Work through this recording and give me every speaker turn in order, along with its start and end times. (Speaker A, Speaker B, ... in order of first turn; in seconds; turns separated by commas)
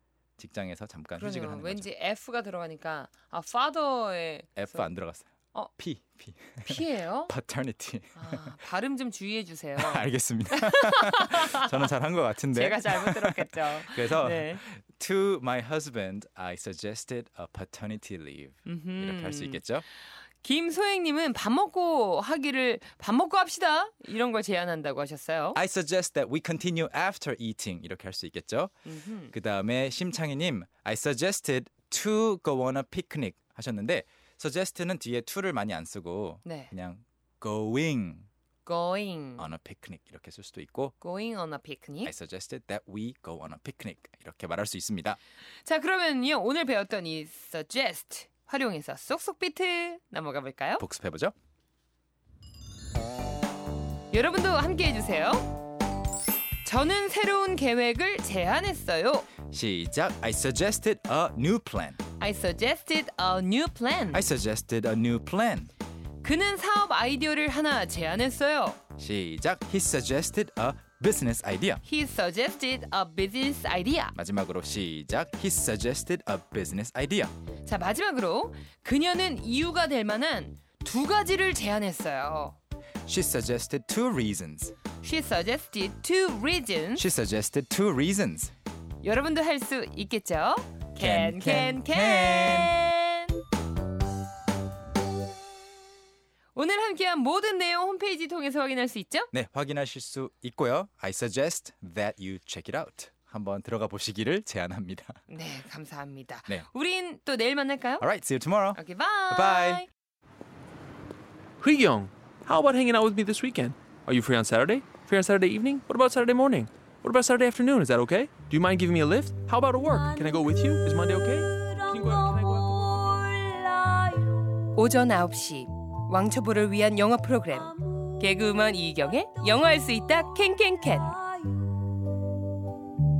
Speaker A: 0.4-1.9, Speaker B: 1.1-4.9, Speaker A: 4.5-8.5, Speaker B: 6.6-7.3, Speaker B: 8.1-11.8, Speaker A: 9.8-19.8, Speaker B: 12.5-14.6, Speaker B: 18.6-19.6, Speaker B: 20.4-25.6, Speaker A: 25.5-28.7, Speaker B: 28.9-29.3, Speaker A: 29.3-38.3, Speaker B: 36.4-36.7, Speaker B: 38.6-39.5, Speaker A: 39.4-40.9, Speaker B: 41.0-42.1, Speaker A: 42.0-45.2, Speaker B: 45.6-50.8, Speaker A: 50.8-51.3, Speaker B: 54.1-55.6, Speaker B: 56.6-59.3, Speaker A: 59.5-62.0, Speaker B: 62.2-64.2, Speaker A: 64.1-65.7, Speaker B: 66.2-68.8, Speaker A: 69.0-71.8, Speaker B: 71.8-74.1, Speaker A: 74.1-77.3, Speaker B: 77.6-82.6, Speaker A: 83.0-84.7, Speaker B: 85.0-87.0, Speaker A: 87.0-88.5, Speaker B: 89.0-93.3, Speaker A: 91.0-92.7, Speaker B: 96.5-99.3, Speaker A: 99.3-105.2, Speaker B: 105.3-108.0, Speaker A: 108.0-109.8, Speaker B: 108.8-109.9, Speaker C: 111.6-124.3, Speaker B: 124.7-131.3